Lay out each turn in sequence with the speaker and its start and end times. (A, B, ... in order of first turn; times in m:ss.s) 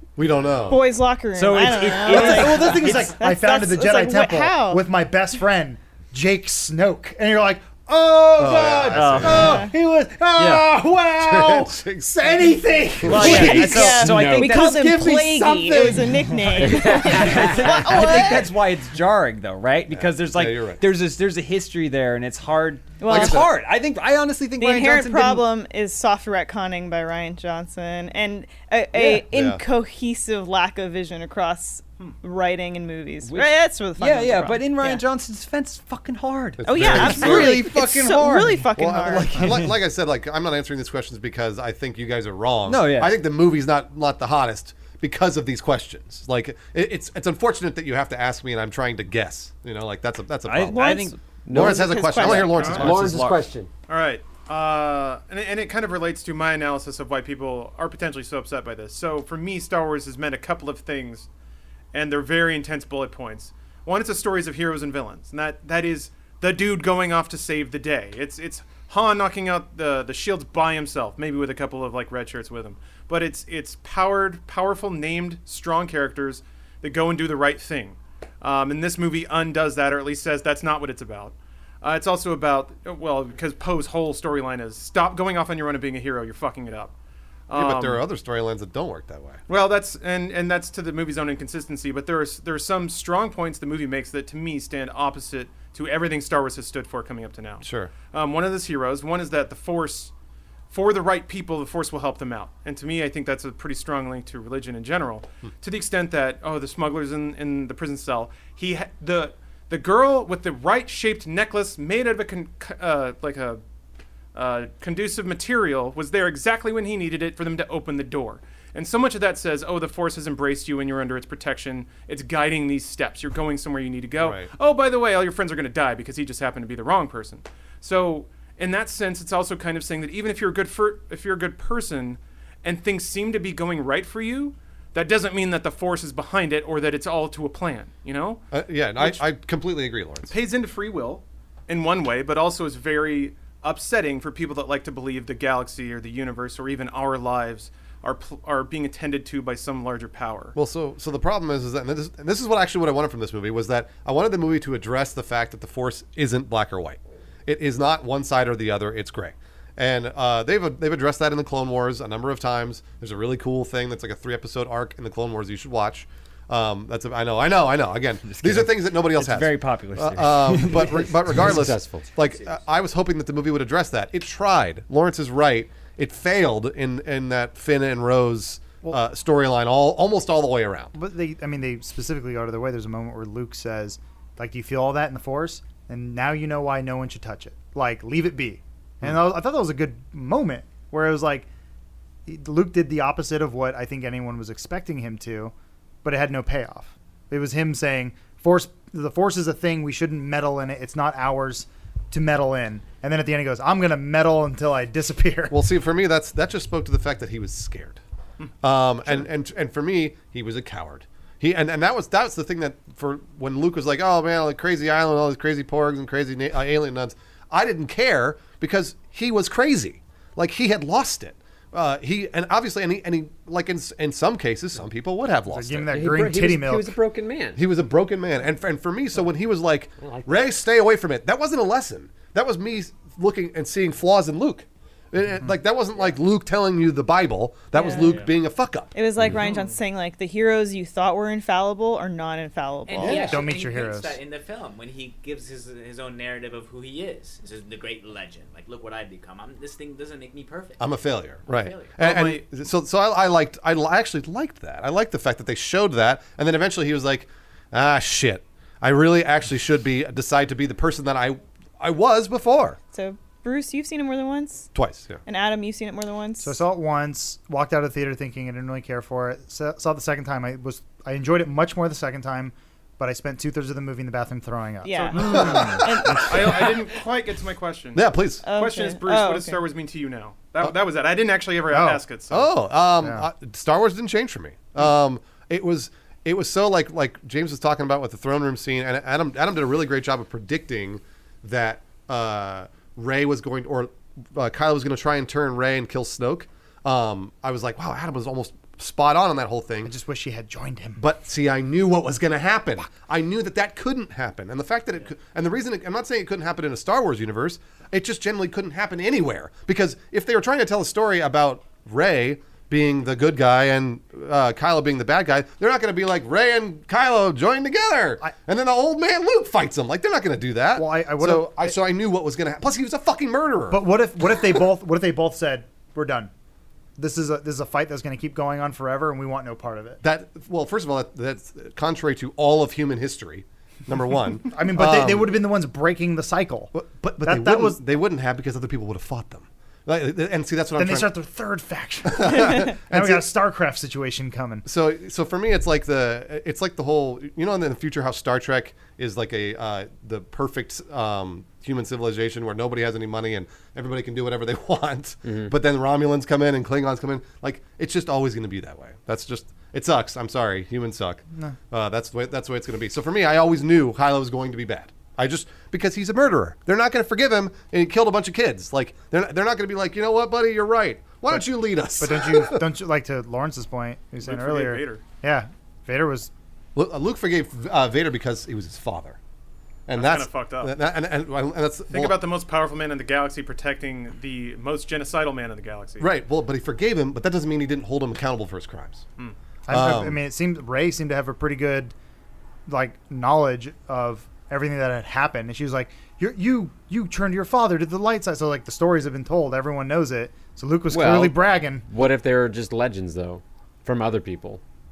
0:00.2-0:00.8 A
0:00.7-0:04.8 B
0:01.4-0:03.2 C
0:02.0-0:13.8 D
0:08.4-0:09.7 A
0:08.9-0:09.7 C
0:09.3-0:09.7 B
0:10.4-0:10.7 C
0:11.2-0:12.4 A
0:13.0-0:13.4 A
0:13.1-0:15.1 C
0:13.1-0:14.7 E
0:13.3-0:18.5 B
0:14.6-0:16.0 D
0:16.3-0:25.4 C
0:16.6-0:18.0 E
0:19.9-0:20.8 A
0:23.0-0:23.5 B
0:23.1-0:23.5 A
0:24.6-0:35.0 B
0:29.3-0:29.6 A
0:33.2-0:38.7 C
0:36.6-0:37.8 A
0:36.7-0:39.6 B
0:38.8-0:53.3 A
0:42.7-0:43.2 C
0:50.5-0:51.2 C
0:50.7-0:52.8 B
0:51.5-0:53.7 E
0:52.2-0:53.4 C
0:52.5-0:52.8 F
0:53.9-1:01.3 F
1:01.9-1:26.9 F
1:27.5-1:28.0 F
1:27.5-1:29.4 A
1:29.5-1:40.1 F
1:37.6-1:37.9 A
1:40.7-1:53.6 F
1:54.3-2:18.4 F
2:04.2-2:04.5 A
2:18.5-2:20.3 A
2:20.3-2:30.6 F
2:30.5-3:00.9 A
2:48.3-2:51.1 C
2:51.3-2:52.1 E
3:00.9-3:11.5 D
3:12.3-3:15.5 D
3:16.0-3:25.6 D
3:25.5-3:28.0 A
3:28.6-3:45.9 A
3:45.5-3:47.0 D
3:45.9-3:47.6 E
3:47.6-3:58.9 A
3:50.0-3:50.4 E
3:57.7-3:58.2 B
3:59.0-4:03.4 B
3:59.3-3:59.7 F
4:02.9-4:10.9 G
4:03.0-4:03.4 A
4:03.0-4:04.2 D
4:10.8-4:22.8 A
4:11.5-4:12.0 G
4:12.0-4:12.4 F
4:22.9-4:24.7 B
4:24.8-4:25.2 A
4:25.3-4:26.6 B
4:26.4-4:35.7 D
4:34.8-4:36.7 B
4:35.2-4:36.1 C
4:35.2-4:37.0 A
4:36.2-4:42.5 F
4:38.0-4:38.4 A
4:38.4-4:39.6 B
4:41.7-4:42.0 D
4:42.3-4:59.9 A
4:43.0-4:43.3 D
4:59.8-5:01.0 D
5:01.0-5:23.8 A
5:20.8-5:21.8 D
5:23.7-5:26.3 D
5:27.0-5:30.0 D
5:30.0-5:35.4 A
5:34.5-5:37.8 D
5:36.7-5:41.1 A
5:40.8-5:44.6 D
5:42.1-5:43.3 A
5:44.6-6:12.6 A
5:55.2-5:55.5 E
6:12.0-6:16.3 D
6:14.2-6:15.0 F
6:16.8-6:19.2 A
6:19.9-6:22.2 A
6:19.9-6:20.8 F
6:21.9-6:26.1 F
6:26.0-6:29.0 A
6:29.7-6:31.9 D
6:29.7-6:30.2 A
6:32.7-6:41.8 D
6:40.9-6:44.6 E